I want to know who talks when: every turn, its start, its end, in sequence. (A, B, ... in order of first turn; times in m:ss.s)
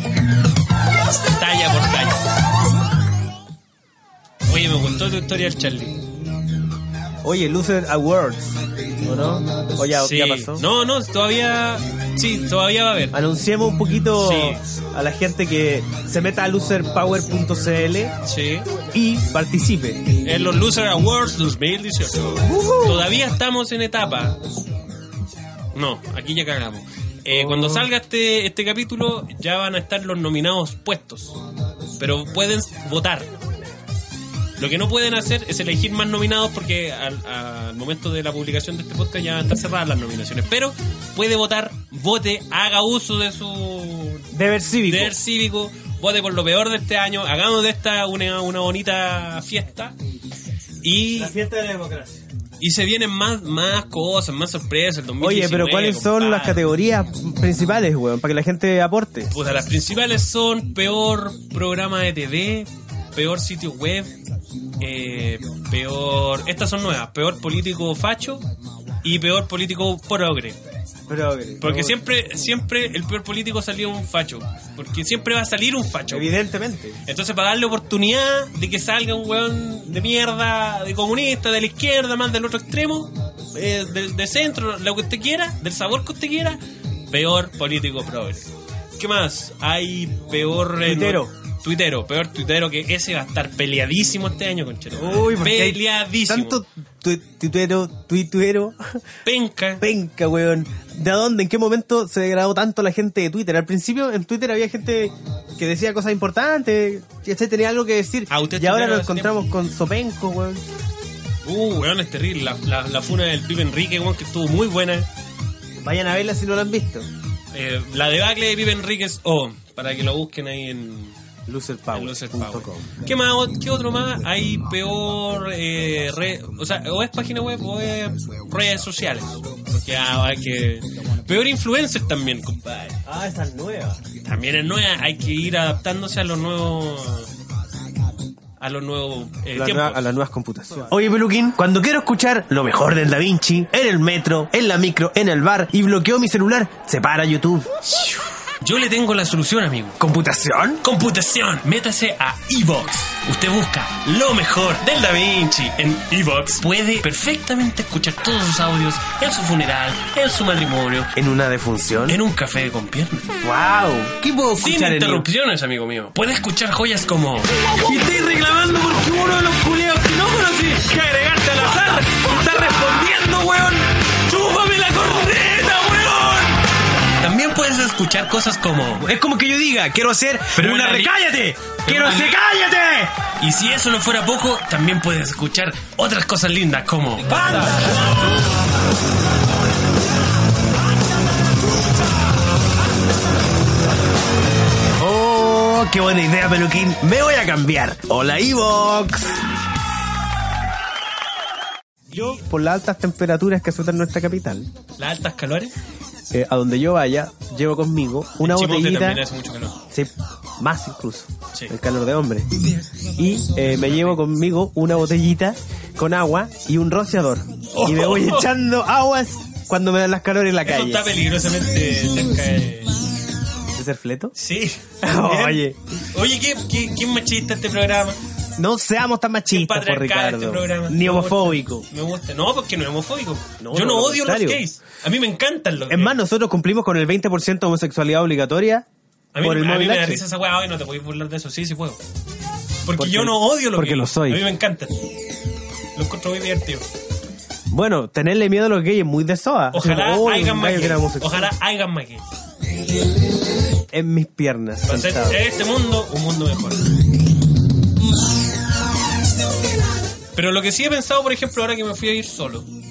0:01.3-0:02.3 A
0:04.5-0:06.0 A
0:07.2-0:10.7 B
0:09.9-0:13.2 A
0:13.1-0:18.2 B
0:14.2-0:14.6 A
0:18.2-0:18.7 A
0:18.9-0:20.1 B
0:20.2-0:24.4 A
0:22.4-0:23.1 B
0:25.7-0:31.4 A
0:27.3-0:27.9 B
0:32.0-0:33.3 A
0:34.6-0:50.0 A
0:44.3-0:45.2 B
0:50.8-0:51.4 A
0:51.2-0:52.2 B
0:52.6-0:56.6 A
0:55.2-0:59.3 B
0:59.3-1:04.2 A
1:04.8-1:08.4 A
1:09.0-1:10.6 A
1:11.1-1:12.0 B
1:11.6-1:16.4 A
1:16.1-1:17.0 B
1:17.0-1:36.6 A
1:30.8-1:31.3 B
1:35.0-1:39.0 B
1:39.2-1:39.8 A
1:39.8-1:50.6 B
1:48.3-1:49.3 A
1:51.4-1:55.1 A
1:55.8-1:57.1 B
1:57.5-2:01.2 A
2:01.5-2:02.9 B
2:01.9-2:13.0 A
2:13.0-2:14.0 B
2:14.2-2:17.3 A
2:18.6-2:20.1 A
2:19.5-2:27.7 B
2:27.9-2:30.0 A
2:30.0-2:30.8 B
2:30.8-2:41.2 A
2:41.2-2:42.2 B
2:42.1-2:43.3 A
2:43.4-2:45.3 B
2:44.6-2:56.6 A
2:57.2-2:59.1 A
2:59.0-3:03.2 B
3:00.6-3:01.2 A
3:01.8-3:02.4 A
3:03.4-3:08.3 A
3:07.3-3:08.3 B
3:15.0-3:19.4 B
3:22.1-3:24.7 B
3:25.0-3:25.7 A
3:26.3-3:29.2 B
3:28.4-3:29.8 A
3:29.9-3:32.5 B
3:33.2-3:41.1 B
3:33.6-3:34.2 A
3:37.7-3:38.5 A
3:40.6-3:43.0 A
3:43.8-3:44.3 B
3:44.4-3:48.2 A
3:45.0-3:45.8 B
3:48.6-3:51.9 B
3:49.5-3:56.2 A
3:53.6-3:54.6 B
3:55.9-3:58.9 B
3:59.3-4:02.0 A
3:59.4-4:00.2 B
4:02.8-4:04.9 A
4:03.0-4:04.4 B
4:06.0-4:06.8 A
4:07.7-4:11.5 B
4:09.7-4:12.3 A
4:13.9-4:15.4 B
4:14.9-4:16.9 A
4:20.4-4:22.7 A